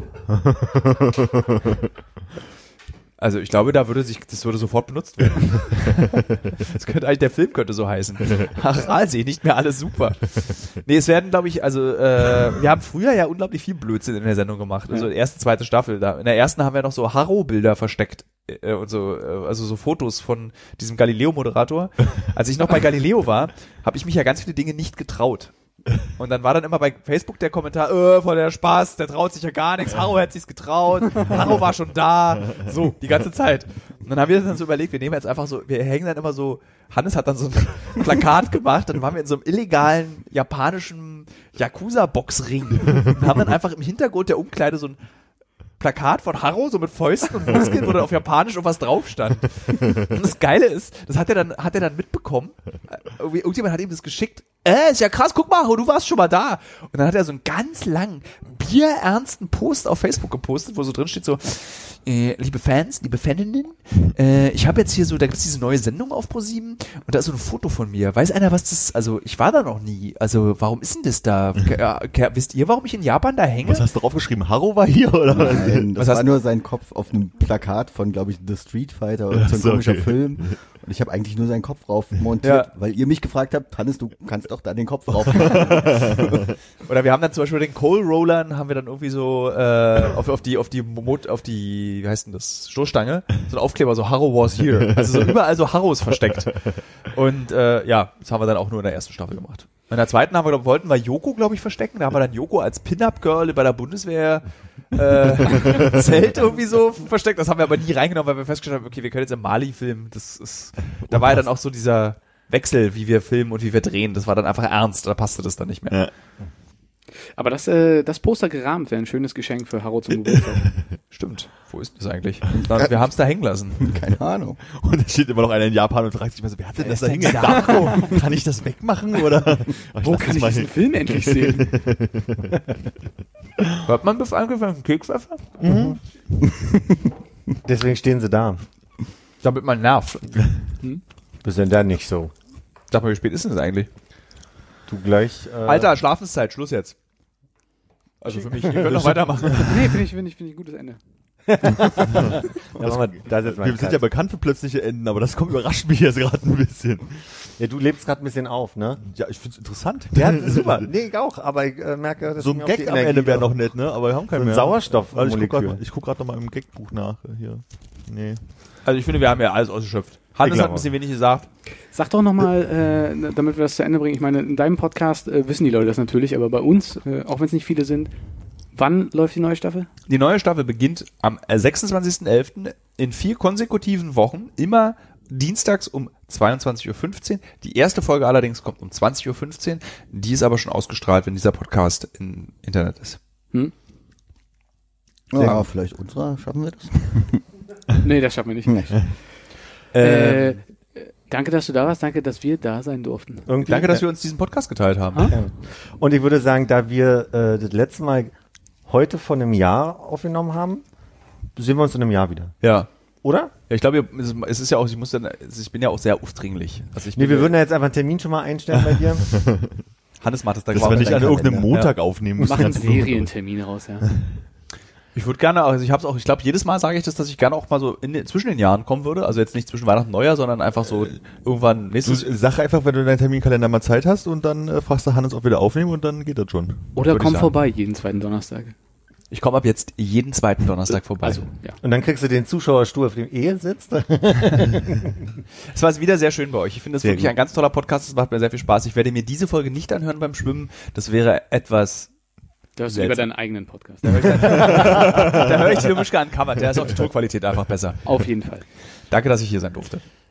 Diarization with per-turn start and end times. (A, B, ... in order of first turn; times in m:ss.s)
0:00.3-0:01.8 A
0:03.2-0:25.5 B
0:26.1-0:45.0 B
0:45.8-1:13.9 B
1:13.6-1:16.0 A
1:15.3-1:26.4 C
1:16.0-1:16.3 B
1:19.3-1:20.4 A
1:22.4-1:22.7 B
1:25.2-1:26.4 A
1:26.9-1:56.0 B
1:35.0-1:35.3 A
1:51.1-1:51.4 A
1:57.4-2:00.7 D
2:01.1-2:03.9 B
2:03.8-2:04.6 C
2:04.7-2:12.6 A
2:06.8-2:08.1 B
2:07.0-2:08.1 D
2:10.0-2:11.8 D
2:13.8-2:15.5 B
2:15.6-2:16.0 E
2:16.5-2:17.0 C
2:17.6-2:18.6 E
2:19.4-2:20.4 B
2:21.4-2:22.3 E
2:22.9-2:23.9 B
2:24.9-2:25.9 E
2:25.7-2:27.0 B
2:28.2-2:29.9 B
2:28.3-2:29.2 E
2:29.6-2:31.0 D
2:31.6-2:34.0 E
2:32.1-2:37.3 A
2:37.6-2:39.0 E
2:39.0-2:40.8 A
2:40.2-2:43.6 E
2:40.2-2:40.8 B
2:42.4-2:48.4 A
2:44.3-2:45.8 E
2:48.8-2:51.5 B
2:50.4-2:50.9 E
2:51.9-2:58.1 D
2:58.7-2:59.9 D
3:00.1-3:13.2 B
3:15.3-3:17.4 C
3:18.0-3:19.1 D
3:18.7-3:18.9 C
3:19.9-3:20.6 B
3:20.0-3:23.5 D
3:23.5-3:24.0 E
3:23.6-3:25.4 B
3:25.3-3:28.3 E
3:28.9-3:30.8 E
3:31.6-3:32.5 E
3:32.6-3:32.9 B
3:33.2-3:33.5 E
3:33.7-3:37.6 B
3:37.2-3:39.4 E
3:38.9-3:39.7 A
3:40.2-3:42.0 B
3:40.7-3:43.3 A
3:40.8-3:41.7 C
3:42.4-3:44.1 D
3:45.2-3:52.3 B
3:52.0-3:56.9 A
3:57.0-3:58.7 D
3:57.0-3:57.6 B
3:59.3-4:01.5 B
4:01.3-4:01.8 D
4:01.8-4:05.4 E
4:05.7-4:12.1 B
4:07.0-4:07.3 E
4:12.8-4:15.6 D
4:12.9-4:13.3 B
4:14.0-4:18.0 B
4:18.0-4:18.6 D
4:19.1-4:20.0 B